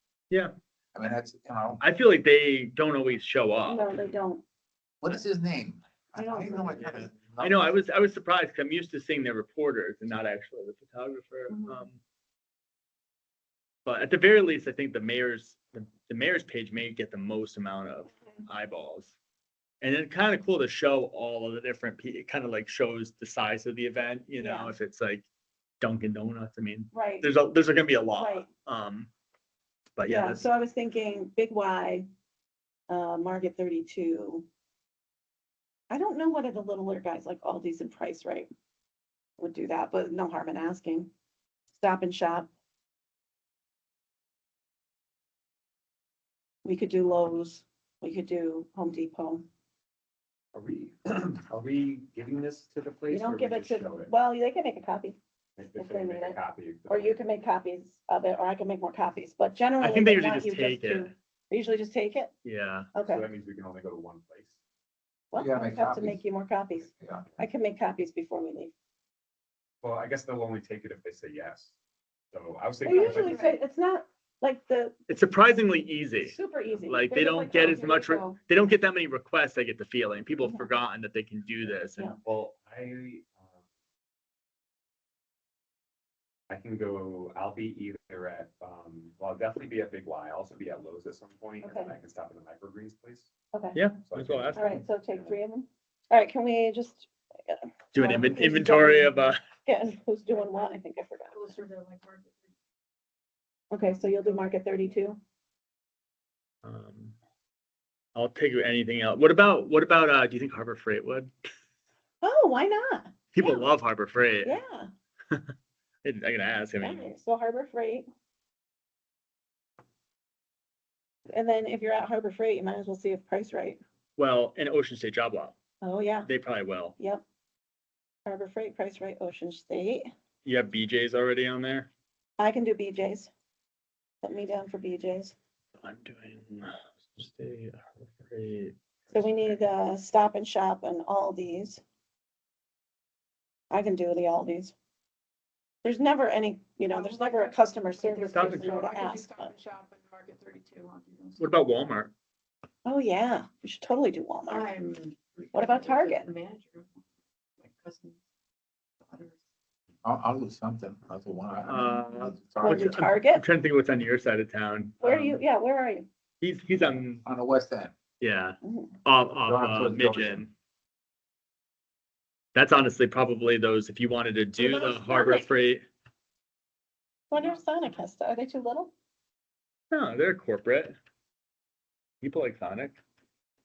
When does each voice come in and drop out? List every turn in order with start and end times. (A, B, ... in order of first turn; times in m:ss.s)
0:00.9-0:01.8 A
0:01.8-0:03.9 B
0:03.6-0:04.4 C
0:05.0-0:07.7 A
0:06.2-0:07.1 C
0:06.8-0:12.0 B
0:11.5-0:11.8 C
0:13.8-0:19.1 B
0:19.8-0:25.2 B
0:24.4-0:24.7 C
0:25.8-0:29.1 B
0:26.9-0:27.3 C
0:28.2-0:28.5 C
0:30.0-0:30.4 B
0:30.0-0:32.0 C
0:32.9-0:34.4 C
0:35.9-0:38.5 C
0:39.4-0:41.1 C
0:41.8-0:42.5 C
0:46.6-0:49.4 C
0:50.5-0:54.1 D
0:53.1-0:55.2 C
0:55.6-0:57.2 D
0:55.8-1:02.3 C
0:59.8-1:01.1 B
1:02.4-1:02.9 B
1:02.9-1:03.3 C
1:03.0-1:04.5 D
1:05.3-1:08.7 C
1:05.4-1:06.2 A
1:07.0-1:07.2 A
1:09.8-1:11.7 D
1:12.3-1:13.5 D
1:12.8-1:15.1 C
1:12.9-1:13.4 E
1:15.1-1:22.1 B
1:16.2-1:18.4 C
1:20.4-1:20.7 C
1:22.2-1:23.6 D
1:26.5-1:33.3 D
1:31.6-1:31.9 C
1:33.7-1:34.8 B
1:34.0-1:35.4 D
1:34.5-1:41.6 C
1:37.9-1:39.4 B
1:41.4-1:42.3 E
1:41.7-1:42.1 D
1:43.7-1:45.2 C
1:46.6-1:47.2 B
1:48.1-1:51.3 B
1:52.2-1:53.6 C
1:53.3-1:54.6 B
1:54.4-1:54.9 C
1:56.0-1:57.1 B
1:56.8-1:58.1 C
2:01.3-2:03.8 C
2:04.2-2:05.6 B
2:05.8-2:06.3 C
2:06.2-2:07.0 B
2:07.0-2:07.2 C
2:08.2-2:10.1 C
2:10.4-2:11.9 B
2:12.4-2:13.3 C
2:14.2-2:15.3 C
2:15.8-2:19.5 B
2:19.1-2:21.8 C
2:23.7-2:24.7 C
2:25.8-2:29.5 C
2:26.9-2:31.4 E
2:28.3-2:28.8 B
2:31.4-2:32.1 B
2:32.8-2:34.7 C
2:34.5-2:37.0 E
2:35.5-2:36.3 C
2:37.6-2:38.2 E
2:39.0-2:39.4 E
2:40.0-2:43.0 A
2:41.6-2:45.4 B
2:42.6-2:43.4 C
2:45.0-2:46.1 C
2:46.4-2:47.2 B
2:47.2-2:47.9 A
2:48.2-2:50.5 B
2:48.6-2:48.9 C
2:49.4-2:50.4 A
2:52.5-2:55.8 B
2:54.6-2:55.4 C
2:57.3-2:58.9 C
2:59.9-3:00.9 B
3:02.2-3:03.0 B